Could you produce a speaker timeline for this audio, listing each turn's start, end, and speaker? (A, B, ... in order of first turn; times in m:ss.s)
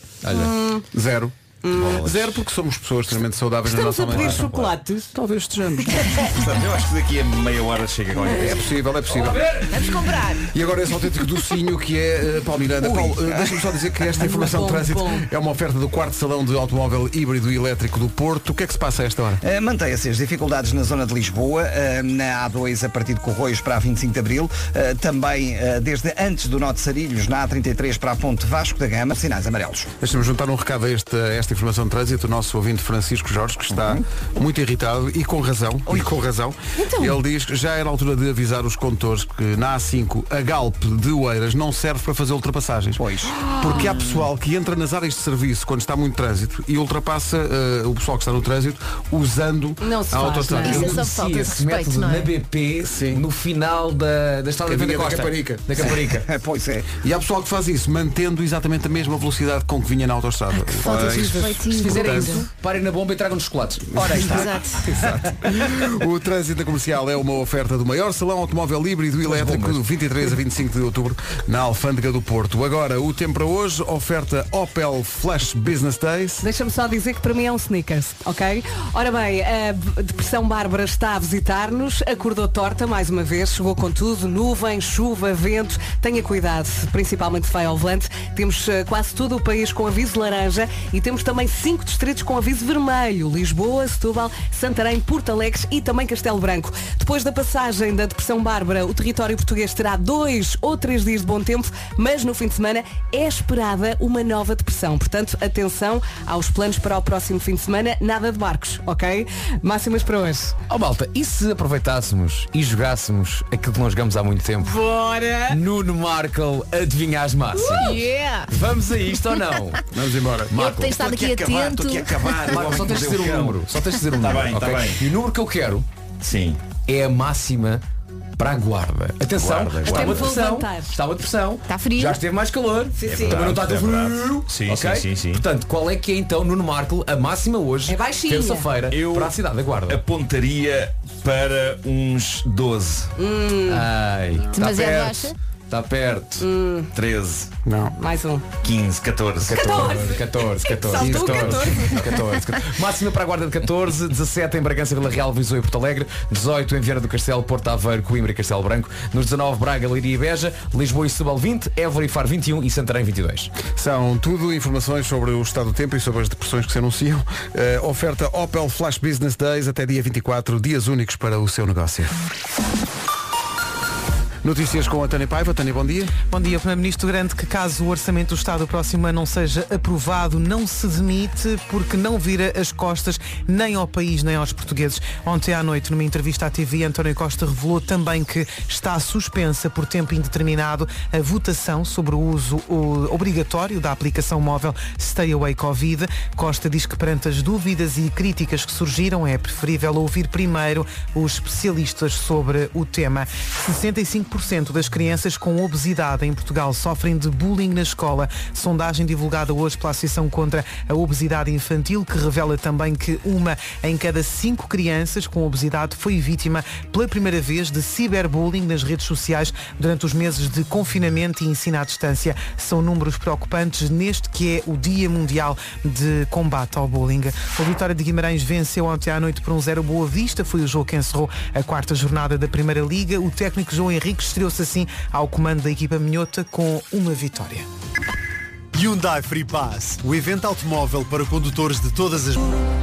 0:00.2-0:00.5 A
0:00.3-0:00.8 B
0:00.9-0:01.3 C
0:01.6-0:02.0 B
0:01.7-0:02.4 D
0:02.0-0:06.2 C
0:03.7-0:05.1 B
0:06.2-0:08.7 D
0:08.3-0:19.4 C
0:09.1-0:09.7 A
0:13.0-0:13.4 E
0:14.2-0:15.3 B
0:19.4-0:29.9 E
0:30.0-0:51.0 C
0:36.8-0:37.2 B
0:43.0-0:44.2 E
0:49.8-0:51.0 B
0:50.6-0:52.3 F
0:50.7-0:56.3 A
0:52.8-0:53.2 C
0:54.6-0:55.9 C
0:56.2-0:56.9 E
0:57.0-1:02.4 C
1:00.6-1:02.4 F
1:01.7-1:05.1 A
1:03.9-1:16.4 C
1:04.1-1:04.8 F
1:09.2-1:09.8 A
1:16.4-1:50.6 B
1:50.7-1:54.7 A
1:54.6-1:55.6 B
1:55.5-1:58.0 A
1:57.6-1:57.8 B
1:57.7-1:58.5 F
1:58.5-1:59.8 A
1:59.9-2:00.5 C
2:00.5-2:01.0 A
2:00.5-2:02.6 F
2:00.9-2:05.0 D
2:02.5-2:05.8 A
2:06.2-2:06.6 D
2:06.9-2:07.8 A
2:08.4-2:20.0 A
2:09.3-2:10.2 D
2:09.8-2:10.9 B
2:11.7-2:12.2 F
2:13.0-2:13.5 B
2:13.0-2:15.4 D
2:17.8-2:18.7 B
2:18.9-2:19.4 D
2:19.9-2:23.1 D
2:23.2-2:23.9 B
2:23.7-2:26.4 A
2:24.5-2:25.3 F
2:26.4-2:26.9 B
2:26.9-2:27.5 D
2:27.6-2:27.9 C
2:28.0-2:28.4 B
2:28.6-2:30.0 D
2:29.4-2:43.5 A
2:29.5-2:32.1 B
2:31.0-2:31.9 C
2:43.7-2:52.2 C
2:54.4-2:56.1 C
2:56.3-3:57.6 G
3:58.7-4:02.5 H